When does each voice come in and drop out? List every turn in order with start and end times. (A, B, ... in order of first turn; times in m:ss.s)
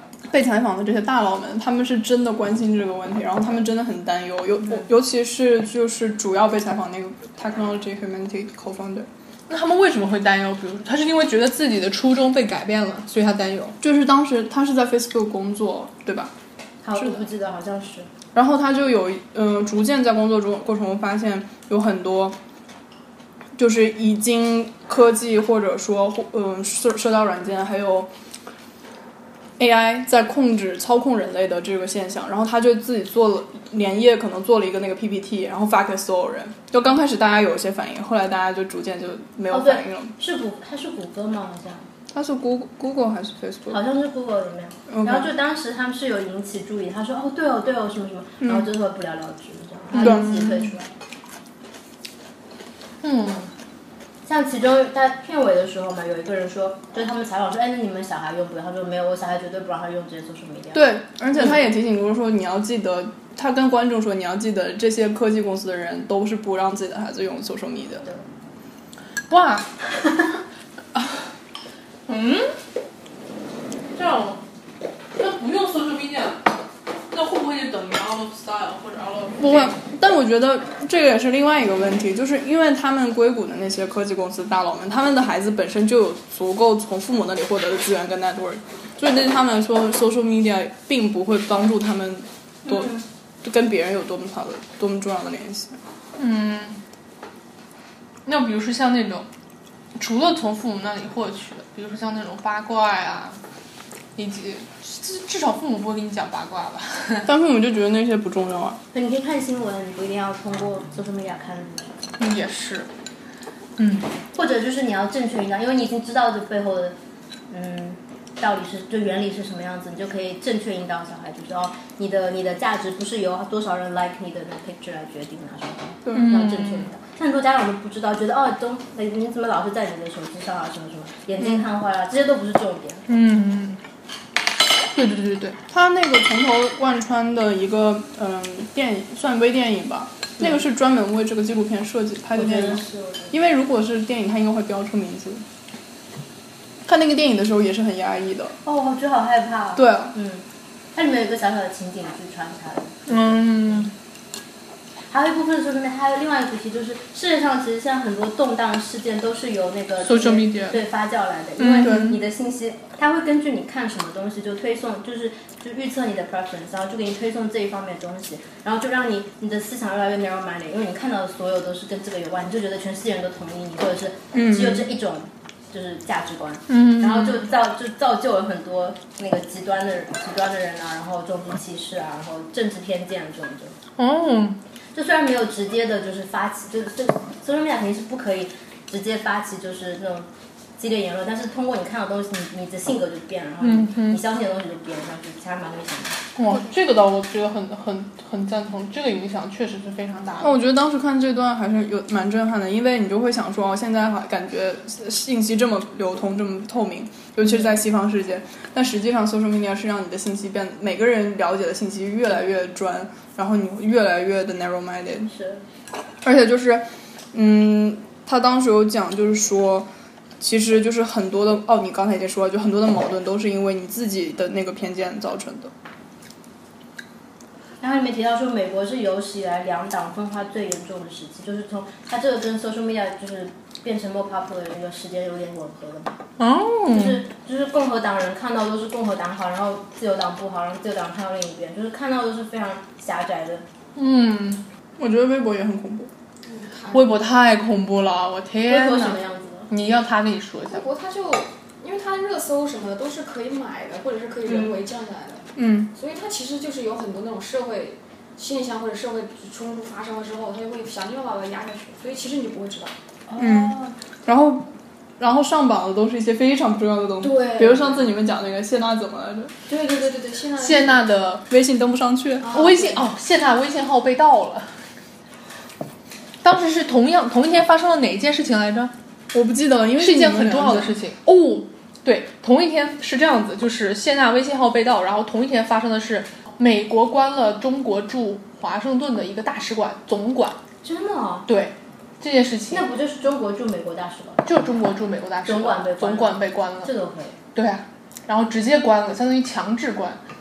0:00.3-0:09.1 A
0:09.5-0:13.8 B
0:13.8-0:16.3 A
0:16.8-0:18.1 C
0:18.3-0:22.4 A
0:23.6-0:28.1 A
0:29.6-0:40.1 A
0:39.5-0:41.9 C
0:42.1-0:43.8 A
0:43.7-0:50.9 C
0:44.9-0:45.3 A
0:48.4-0:48.7 A
0:49.9-0:50.6 B
0:50.0-0:50.5 A
0:53.0-0:53.5 B
0:54.2-1:00.9 C
1:00.7-1:08.1 A
1:09.3-1:09.7 B
1:12.1-1:12.5 B
1:13.9-1:14.4 B
1:15.2-1:16.5 B
1:17.1-1:19.8 B
1:19.4-1:35.8 A
1:36.2-1:36.8 B
1:38.2-1:39.3 B
1:40.0-1:43.4 B
1:44.2-1:47.3 B
1:47.2-1:48.8 A
1:48.9-1:52.0 C
1:52.2-1:52.9 B
1:53.8-1:54.1 B
1:54.3-1:57.0 C
1:57.5-2:13.0 C
2:06.0-2:06.3 A
2:06.1-2:06.9 B
2:13.1-2:13.8 B
2:14.9-2:15.6 B
2:15.7-2:25.4 A
2:22.3-2:23.4 C
2:26.8-2:28.6 A
2:28.6-2:33.8 C
2:29.8-2:30.2 A
2:33.1-2:33.9 B
2:35.1-3:03.8 C
2:40.0-2:40.8 B
2:41.6-2:42.2 B
2:41.8-2:42.2 A
2:54.3-2:54.9 A
2:56.7-2:57.4 B
3:04.0-3:04.6 B
3:04.9-3:16.2 C
3:13.6-3:14.2 B
3:16.4-3:20.5 B
3:20.4-3:35.3 A
3:35.3-3:35.6 C
3:36.2-3:39.9 A
3:40.4-3:45.7 A
3:47.8-3:56.2 C
3:56.4-3:57.2 B
3:56.9-4:03.6 C
4:04.0-4:04.6 B
4:05.0-4:06.1 A
4:06.4-4:07.1 D
4:06.9-4:10.8 B
4:08.6-4:09.7 C
4:10.7-4:23.9 D
4:15.6-4:15.9 A
4:23.4-4:29.5 A
4:27.2-4:28.1 D
4:29.7-4:31.0 D
4:30.6-4:31.4 B
4:31.5-4:32.5 A
4:32.5-4:34.7 B
4:32.5-4:33.0 D
4:36.4-4:38.9 B
4:39.3-4:40.9 A
4:40.0-4:50.6 B
4:50.8-4:51.5 C
4:51.5-4:52.9 B
4:52.7-4:54.4 C
4:54.4-4:56.9 B
4:55.4-4:57.4 C
4:57.5-5:00.2 B